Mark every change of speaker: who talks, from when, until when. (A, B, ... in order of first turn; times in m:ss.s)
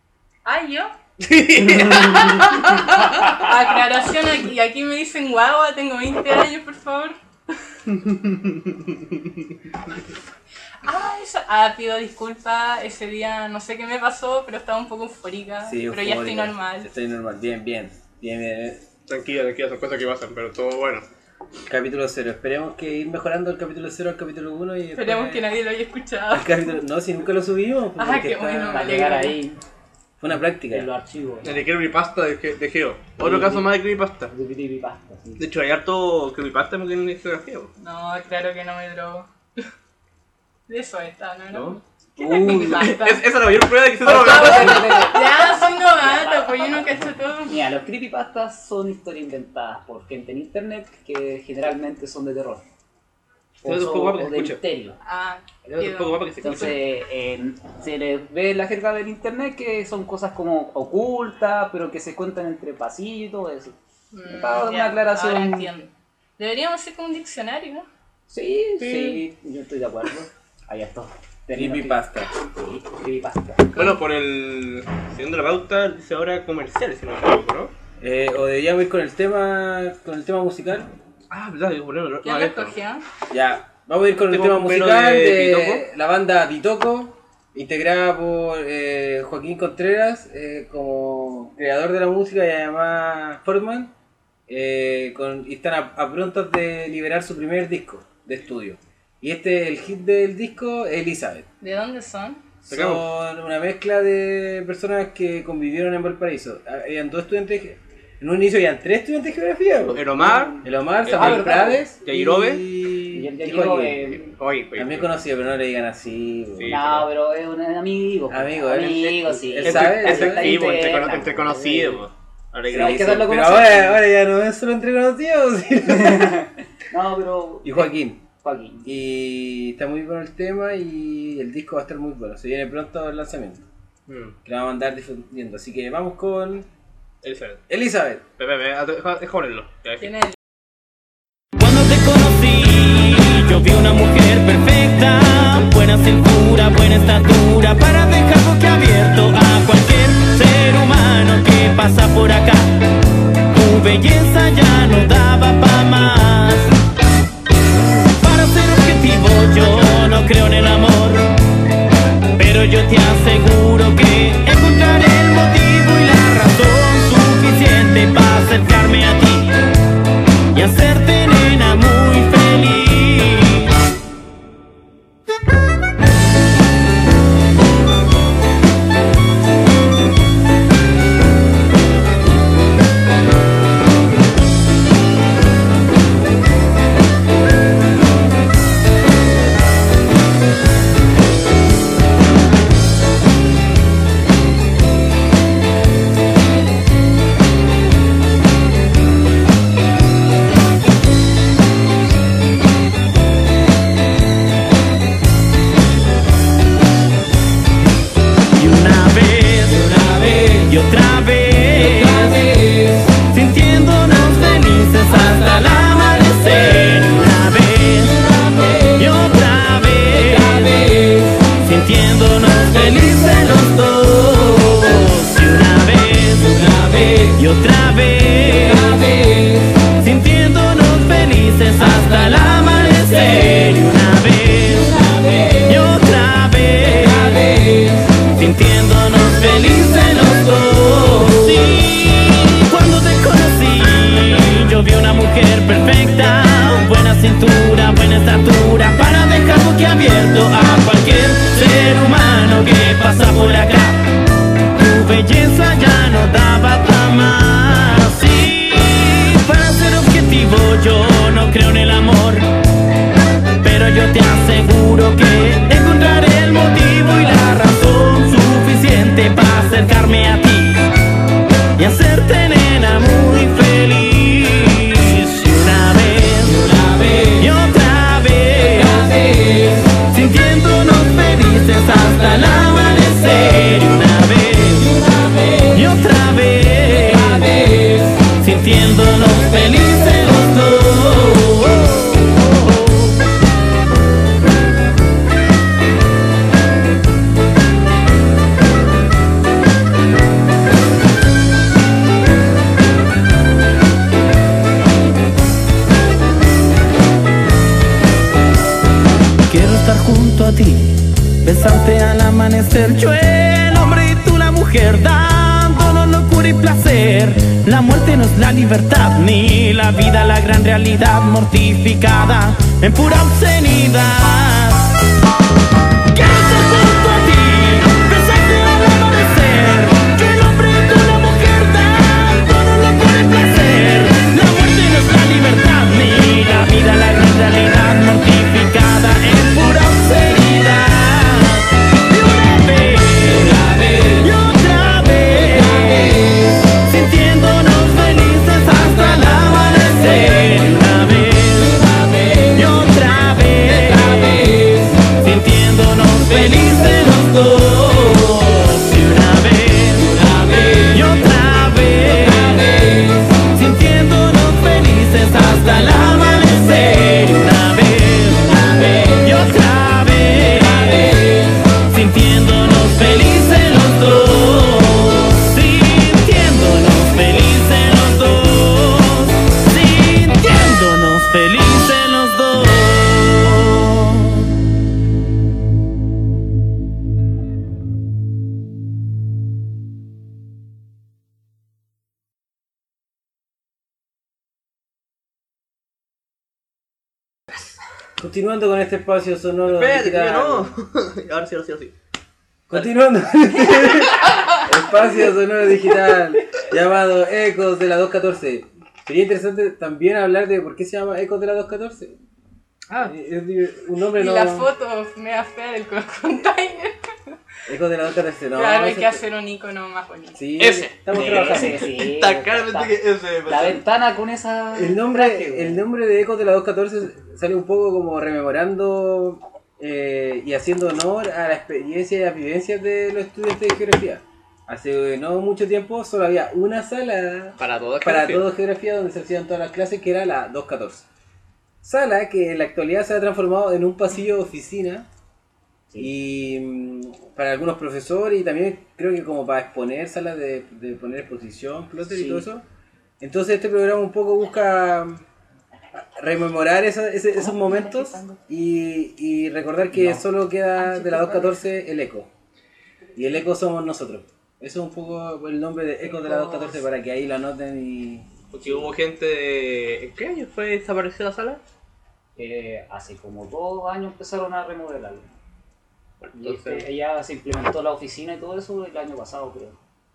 0:00.4-0:00.9 A
0:01.2-0:03.4 B
0:01.9-0:07.2 A
0:08.0-0:08.9 B
0:10.8-0:16.9 A
0:15.6-0:18.8 C
0:19.1-0:21.1 B
0:21.7-0:25.5 C
0:25.0-0:26.8 A
0:26.3-0:29.1 C
0:28.0-0:29.4 A
0:28.7-0:29.6 D
0:30.2-0:30.9 C
0:30.7-0:31.5 D
0:31.4-0:34.3 B
0:33.2-0:33.8 D
0:34.3-0:35.4 D
0:35.4-0:37.7 B
0:37.8-0:39.7 A
0:40.7-0:43.3 A
0:41.5-0:41.8 B
0:42.2-0:42.9 C
0:42.3-0:45.2 B
0:44.0-0:47.6 A
0:44.1-0:52.6 D
0:53.6-0:55.0 D
0:53.6-0:54.6 B
0:55.0-0:56.7 A
0:55.6-0:56.8 B
0:56.4-1:03.8 D
1:04.1-1:07.9 A
1:04.3-1:05.7 D
1:08.3-1:13.8 D
1:08.8-1:09.2 B
1:11.5-1:12.3 C
1:13.8-1:17.7 B
1:18.0-1:20.9 C
1:21.3-1:22.8 B
1:22.2-1:23.0 A
1:23.3-1:33.9 C
1:24.3-1:25.8 B
1:34.5-1:41.5 C
1:41.6-1:42.5 A
1:42.7-1:43.0 B
1:42.7-1:54.2 C
1:49.9-1:52.6 B
1:50.2-1:51.8 D
1:53.1-1:54.3 D
1:54.3-1:55.1 B
1:54.8-1:56.8 C
1:56.6-1:57.1 B
1:56.7-2:02.0 D
1:58.3-2:00.6 C
1:59.6-2:03.8 B
2:02.7-2:04.0 D
2:02.7-2:06.5 C
2:05.9-2:08.9 D
2:07.6-2:08.2 C
2:08.8-2:13.6 C
2:14.1-2:14.4 B
2:14.4-2:16.7 C
2:17.2-2:17.6 B
2:17.7-2:18.2 C
2:18.4-2:20.1 B
2:20.0-2:20.4 A
2:21.6-2:32.8 E
2:33.5-2:36.7 E
2:38.2-2:41.3 E
2:42.4-2:49.6 E
2:50.5-2:53.7 E
3:28.6-3:49.3 E
3:49.8-3:57.6 E
3:58.3-4:14.0 E
4:14.8-4:22.5 E
4:23.6-4:30.8 E
4:31.8-4:53.2 E
5:09.5-5:25.0 E
5:26.1-6:24.6 E
6:38.2-6:40.8 C
6:39.7-6:41.9 B
6:42.7-6:52.2 C
6:53.0-6:54.7 C
6:54.2-6:57.4 A
6:57.7-6:59.2 C
6:58.6-7:00.4 A
7:00.4-7:01.9 C
7:00.6-7:03.8 B
7:01.1-7:05.8 D
7:04.7-7:21.1 C
7:17.6-7:18.4 B
7:21.8-7:25.1 C
7:26.0-7:32.6 C
7:32.1-7:32.5 D
7:33.2-7:35.3 C
7:36.0-7:42.3 C
7:37.5-7:38.3 A
7:39.9-7:40.2 D
7:40.9-7:41.5 D
7:43.2-7:48.3 C
7:46.1-7:46.7 D
7:48.5-7:51.6 B
7:52.4-7:55.3 D
7:56.2-7:56.9 B
7:56.4-7:59.8 D